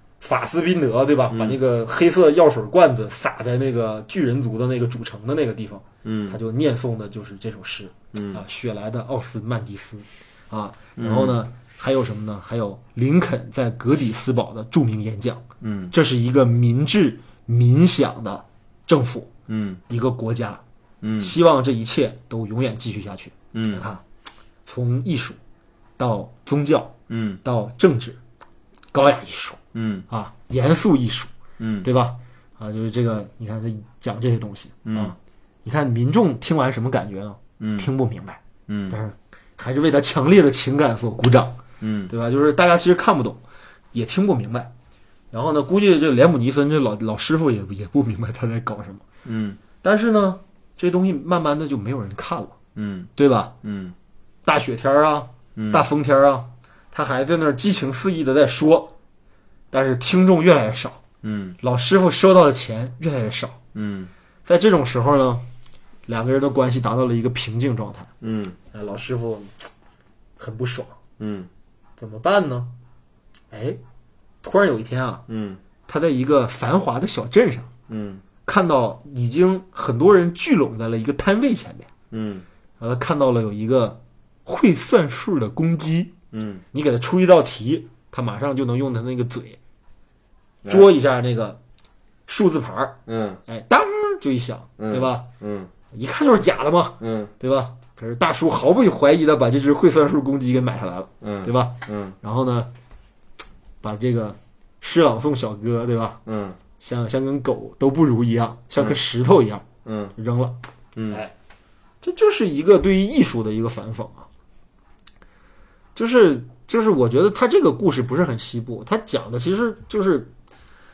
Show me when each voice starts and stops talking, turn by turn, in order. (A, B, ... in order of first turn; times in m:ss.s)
0:00.2-0:19.3 A
0:01.3-0:01.6 B
0:06.0-0:06.4 B
0:08.1-0:08.4 B
0:11.0-0:11.4 B
0:15.6-0:15.9 B
0:19.5-0:19.8 B
0:19.9-0:20.6 A
0:21.0-0:21.3 B
0:21.2-0:24.0 A
0:23.5-0:23.8 B
0:24.6-0:25.4 A
0:26.0-0:28.2 A
0:27.1-0:27.4 B
0:28.9-0:31.3 A
0:29.7-0:30.1 B
0:31.6-0:31.9 B
0:31.8-0:43.4 A
0:34.9-0:35.2 B
0:37.6-0:37.9 B
0:38.7-0:39.0 B
0:41.8-0:42.1 B
0:43.9-0:44.7 A
0:45.3-0:49.0 A
0:49.2-0:49.6 B
0:49.8-0:52.6 A
0:52.8-0:54.0 B
0:53.2-0:53.5 A
0:54.4-0:58.9 A
0:55.6-0:55.9 B
0:59.7-1:01.0 A
1:01.2-1:01.6 B
1:01.6-1:03.6 A
1:03.7-1:04.1 B
1:04.4-1:05.4 A
1:06.1-1:08.1 A
1:08.2-1:08.6 B
1:08.7-1:09.7 A
1:10.4-1:11.0 A
1:11.2-1:11.5 B
1:12.0-1:12.7 A
1:13.5-1:13.8 A
1:14.4-1:15.2 A
1:15.3-1:15.6 B
1:15.9-1:17.7 A
1:17.9-1:18.2 B
1:18.4-1:21.9 A
1:22.1-1:22.4 B
1:22.8-1:26.1 A
1:26.3-1:26.6 B
1:26.7-1:29.6 A
1:30.7-1:31.6 A
1:32.3-1:35.2 A
1:33.1-1:33.4 B
1:34.8-1:35.7 B
1:35.9-1:42.7 A
1:37.0-1:37.3 B
1:41.2-1:42.2 B
1:43.8-1:46.2 A
1:46.2-1:46.6 B
1:46.8-1:49.6 A
1:49.8-1:50.2 B
1:50.2-1:50.6 A
1:51.0-1:51.2 B
1:52.0-1:54.3 A
1:56.0-2:00.3 A